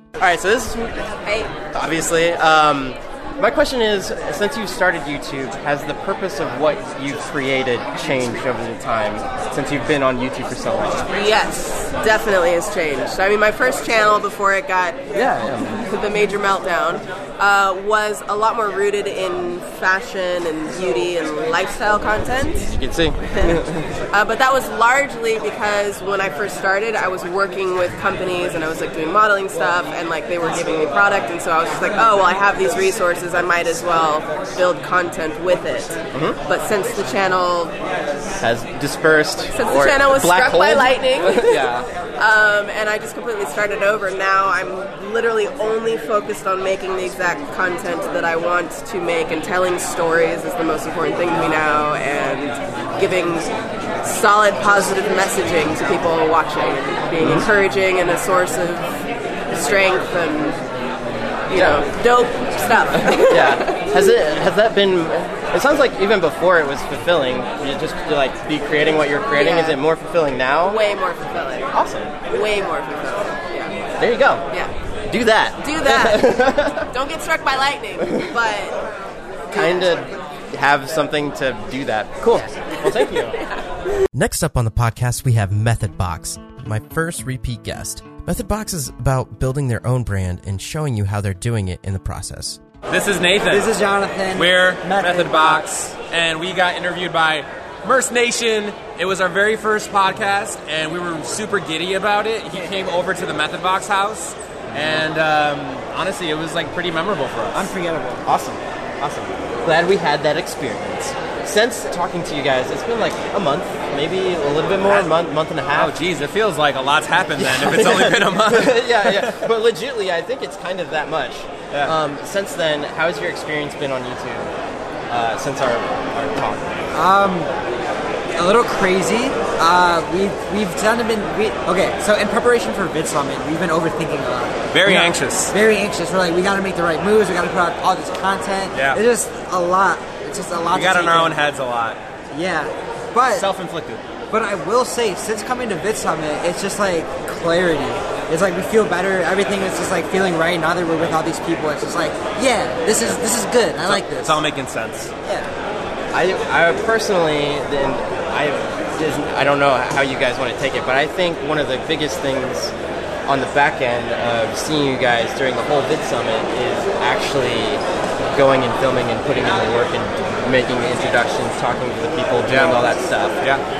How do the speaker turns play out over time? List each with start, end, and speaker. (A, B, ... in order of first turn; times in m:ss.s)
0:00.2-0:01.1 A
0:01.2-0:01.5 B
0:01.6-0:11.1 A
0:11.2-0:15.0 B
0:15.1-0:15.8 A
0:15.8-0:22.6 B
0:22.6-0:23.9 A
0:24.1-0:37.7 B
0:36.1-0:36.4 A
0:38.4-0:41.8 A
0:39.5-0:53.5 B
0:54.0-0:58.9 B
0:57.2-0:57.5 A
0:59.5-1:00.6 B
1:01.5-1:03.8 B
1:01.5-1:01.8 A
1:03.3-1:10.8 A
1:09.3-1:09.8 B
1:10.6-1:11.7 B
1:11.7-1:12.1 A
1:12.3-1:13.7 B
1:14.0-1:14.4 A
1:15.1-1:16.9 A
1:15.6-1:18.8 B
1:18.0-1:18.3 A
1:19.5-1:19.9 B
1:19.5-1:23.3 A
1:22.8-1:23.4 B
1:24.1-1:32.6 C
1:32.9-1:33.8 D
1:33.4-1:35.8 E
1:34.3-1:47.7 D
1:47.5-1:48.2 E
1:48.2-1:55.9 A
1:54.8-1:55.1 D
1:55.7-1:59.5 D
1:57.4-2:04.5 A
2:05.1-2:06.8 A
2:06.9-2:07.5 E
2:08.4-2:21.4 E
2:14.7-2:15.5 D
2:18.7-2:19.0 D
2:20.7-2:22.0 D
2:22.3-2:23.5 E
2:23.3-2:24.0 D
2:24.3-2:34.4 E
2:33.8-2:35.1 D
2:35.2-2:35.5 E
2:36.1-2:42.7 A
2:43.3-2:47.8 A
2:48.3-2:53.4 A
2:52.4-2:53.6 D